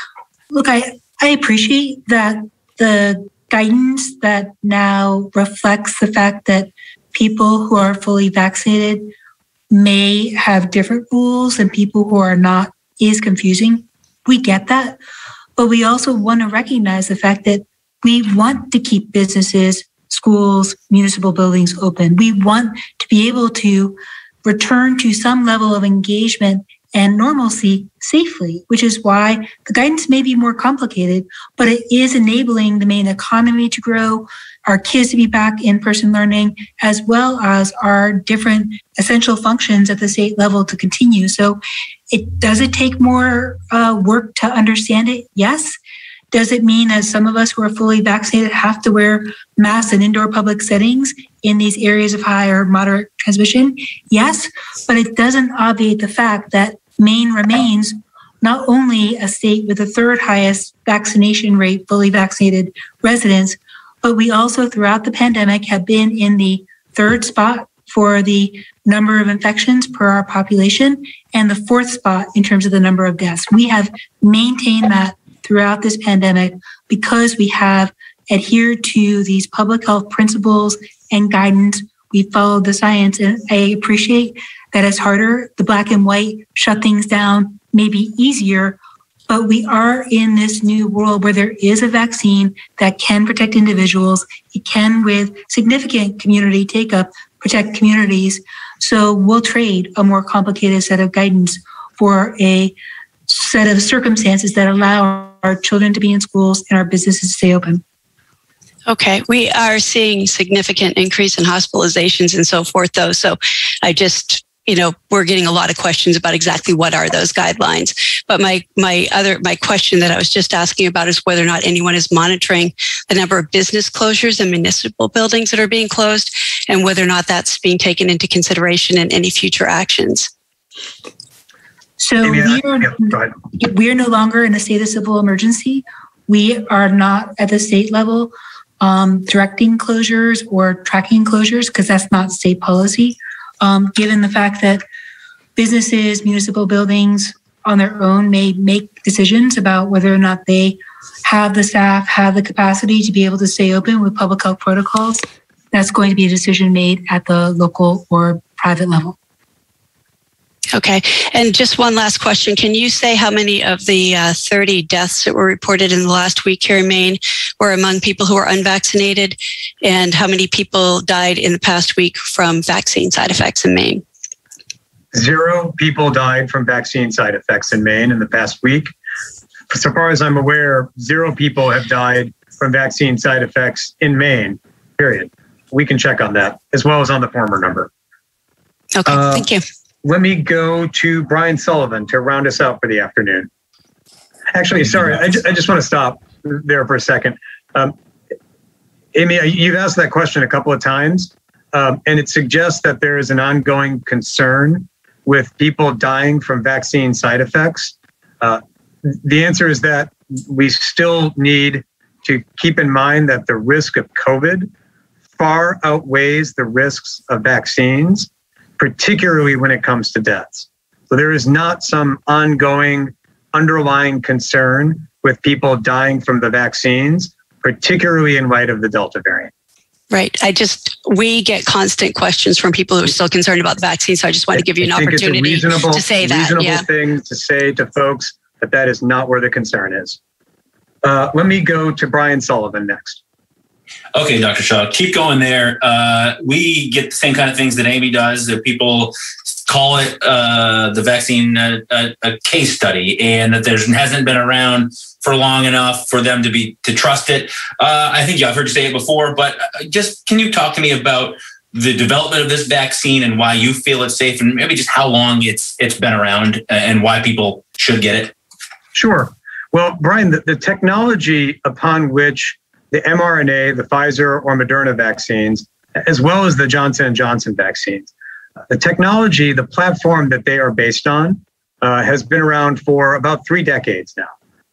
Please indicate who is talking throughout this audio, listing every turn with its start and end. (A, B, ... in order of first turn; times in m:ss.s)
0:00.5-0:09.1 A
0:09.7-0:15.0 A
0:15.6-0:41.6 A
0:42.1-0:45.8 A
0:46.3-1:28.8 A
1:29.3-1:42.7 A
1:43.3-1:47.8 A
1:48.9-2:10.3 B
2:12.0-2:24.8 A
2:12.2-2:13.3 C
2:25.6-2:39.2 A
2:40.7-2:54.0 B
2:55.1-2:58.9 C
2:59.7-3:07.9 C
3:08.9-3:09.6 B
3:09.0-3:09.4 C
3:10.0-3:13.5 C
3:14.5-3:17.9 C
3:19.1-3:34.7 C
3:35.4-3:49.5 C
3:50.1-3:56.9 B
3:54.5-4:00.2 C
4:01.0-4:03.2 C
4:04.1-4:28.3 D
4:28.9-4:38.1 C
4:38.7-4:44.3 C